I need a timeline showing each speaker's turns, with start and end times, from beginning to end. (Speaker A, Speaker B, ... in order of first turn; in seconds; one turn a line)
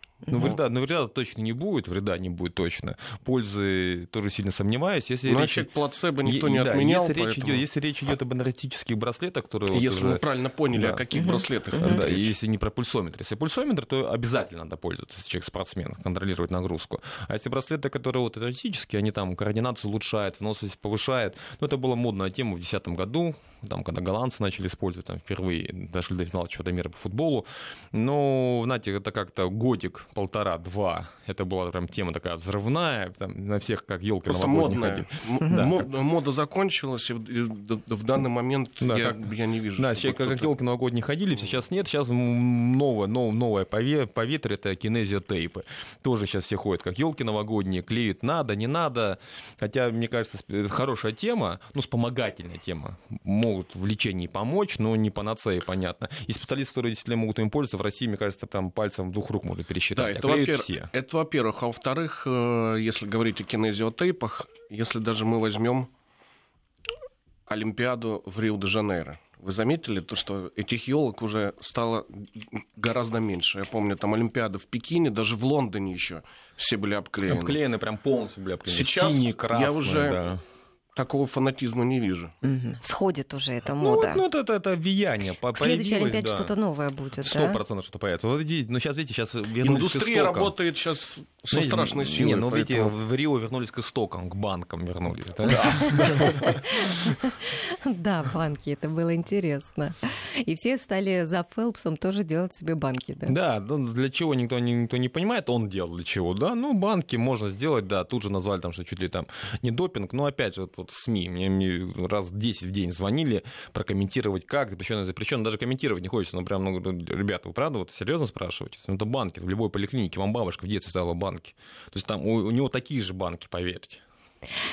Speaker A: 0.3-5.7
Speaker B: 5.2-7.6
Speaker A: 6.2-10.2
Speaker B: 9.7-12.3
Speaker A: 10.7-11.1
Speaker C: 11.2-12.0
Speaker A: 11.8-35.9
Speaker B: 34.3-40.5
Speaker A: 38.8-39.3
Speaker A: 39.8-60.9
Speaker B: 60.0-65.9
Speaker B: 67.5-77.6
Speaker A: 77.2-80.4
Speaker B: 78.7-80.2
Speaker B: 81.0-82.3
Speaker C: 82.4-84.2
Speaker A: 83.8-86.5
Speaker C: 85.5-87.6
Speaker A: 87.2-90.5
Speaker B: 89.6-92.9
Speaker A: 91.5-97.2
Speaker C: 95.6-103.4
Speaker A: 103.3-124.0